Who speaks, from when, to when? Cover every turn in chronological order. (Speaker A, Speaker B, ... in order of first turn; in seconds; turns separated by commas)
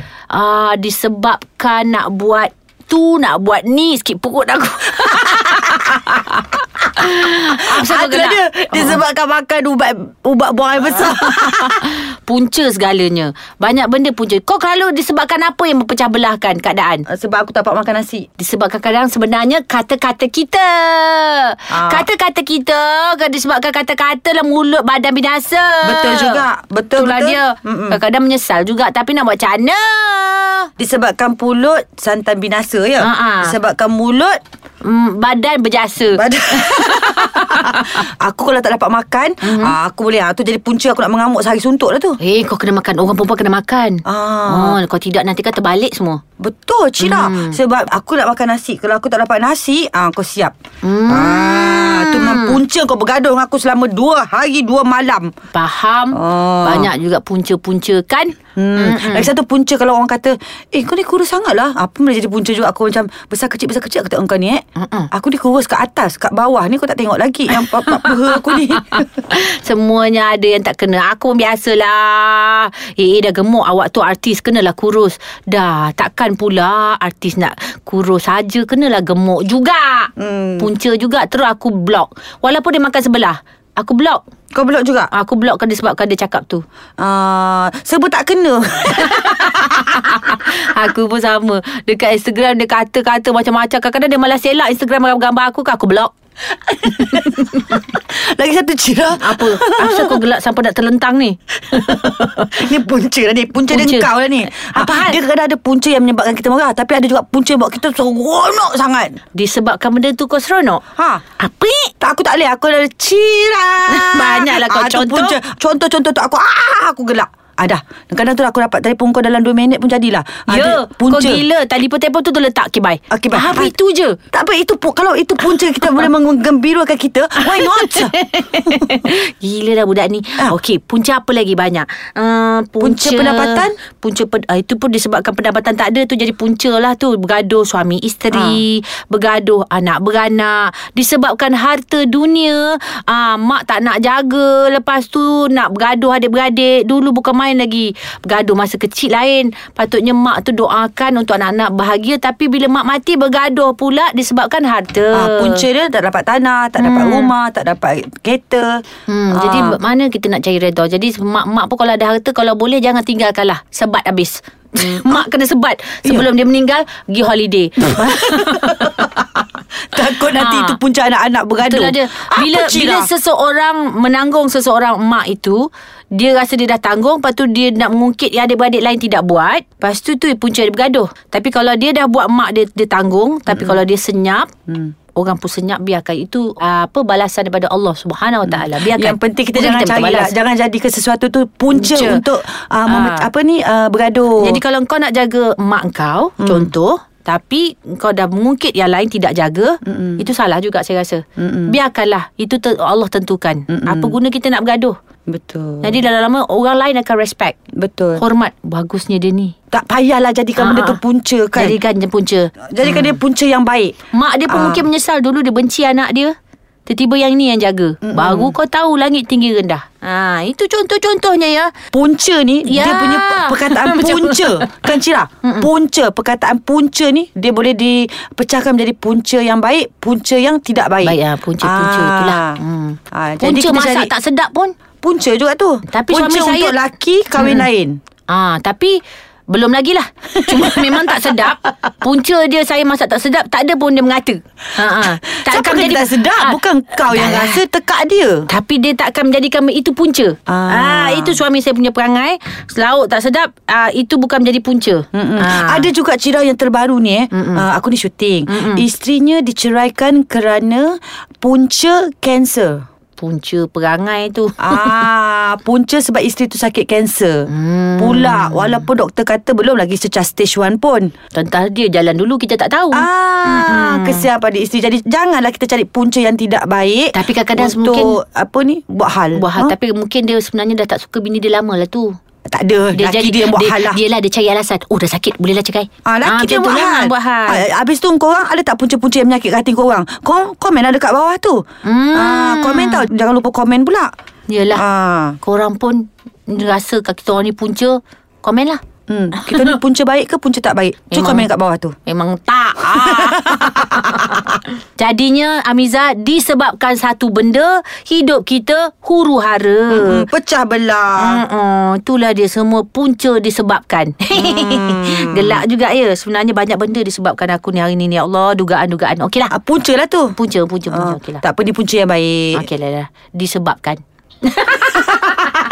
Speaker A: 0.3-9.0, Speaker B: 5.3-6.0, Speaker B: 7.6-11.8, Speaker A: 10.9-17.1, Speaker B: 17.1-18.3, Speaker A: 18.4-26.4, Speaker B: 21.7-22.1, Speaker B: 25.8-28.0, Speaker A: 27.0-30.7, Speaker B: 30.8-34.4, Speaker A: 33.0-33.6, Speaker A: 34.8-38.0, Speaker B: 36.1-42.2, Speaker A: 39.4-39.8, Speaker A: 42.2-46.2, Speaker B: 44.1-44.8, Speaker B: 46.4-50.5, Speaker A: 47.0-47.6, Speaker A: 50.8-52.6, Speaker B: 51.1-55.3, Speaker A: 55.5-59.3, Speaker B: 56.1-56.9, Speaker B: 58.6-69.1, Speaker A: 64.8-65.1, Speaker A: 67.5-84.2, Speaker B: 80.2-80.7, Speaker B: 84.5-85.1, Speaker A: 85.1-86.6, Speaker B: 87.0-90.3, Speaker A: 89.0-96.1, Speaker B: 96.7-100.2, Speaker A: 96.8-97.9, Speaker A: 99.2-102.6, Speaker B: 101.7-109.2, Speaker A: 103.7-105.2, Speaker A: 109.3-110.8, Speaker B: 111.0-111.2, Speaker A: 111.4-111.9, Speaker B: 112.0-121.4, Speaker A: 113.9-115.4, Speaker A: 120.5-124.2, Speaker B: 123.1-123.7, Speaker B: 124.3-128.9, Speaker A: 127.5-155.7, Speaker B: 132.8-133.8, Speaker B: 138.3-138.6, Speaker B: 155.1-159.8, Speaker A: 156.8-157.3, Speaker A: 159.1-169.1, Speaker B: 164.8-165.3, Speaker B: 167.8-173.1, Speaker A: 170.3-170.8, Speaker A: 171.6-184.5, Speaker B: 183.5-183.8, Speaker B: 184.7-184.9, Speaker A: 185.2-190.3, Speaker B: 188.5-194.6, Speaker A: 191.7-192.2, Speaker A: 192.9-193.3, Speaker A: 194.4-205.0, Speaker B: 196.4-196.7, Speaker B: 199.8-200.3, Speaker B: 201.4-201.8, Speaker B: 203.7-204.2, Speaker B: 205.3-205.9, Speaker A: 205.8-207.6, Speaker B: 207.8-208.2, Speaker A: 208.2-209.5, Speaker B: 209.7-211.8, Speaker A: 210.6-211.0, Speaker A: 211.6-213.2, Speaker B: 212.7-213.9, Speaker A: 214.1-216.3, Speaker B: 214.5-214.8, Speaker A: 216.9-221.7, Speaker B: 218.0-218.6, Speaker B: 221.9-232.6, Speaker A: 222.7-224.8, Speaker A: 225.4-225.7, Speaker A: 231.0-234.7, Speaker B: 233.1-234.1, Speaker B: 235.0-238.0, Speaker A: 235.9-236.8, Speaker A: 237.4-237.7, Speaker A: 238.3-247.6, Speaker B: 240.4-241.7, Speaker B: 244.8-248.5, Speaker A: 248.5-255.9, Speaker B: 250.5-251.4, Speaker B: 255.1-262.8, Speaker A: 257.3-257.7, Speaker A: 258.5-258.9, Speaker A: 263.2-265.0, Speaker B: 264.6-271.1, Speaker A: 267.5-268.9, Speaker A: 271.3-274.3, Speaker B: 272.9-279.7, Speaker A: 277.1-278.2, Speaker A: 279.4-282.1, Speaker B: 282.5-284.0, Speaker A: 282.9-287.6, Speaker B: 286.1-294.1, Speaker A: 291.8-293.1, Speaker A: 294.5-294.9, Speaker B: 294.7-295.4, Speaker A: 295.4-298.8, Speaker B: 299.1-301.9, Speaker A: 299.4-299.8, Speaker A: 301.1-301.5, Speaker A: 302.1-310.3, Speaker B: 302.8-304.6, Speaker B: 309.9-311.4, Speaker A: 311.2-319.5, Speaker B: 314.3-315.6, Speaker B: 319.5-320.4, Speaker A: 320.4-321.4, Speaker B: 320.9-322.7, Speaker A: 322.6-325.5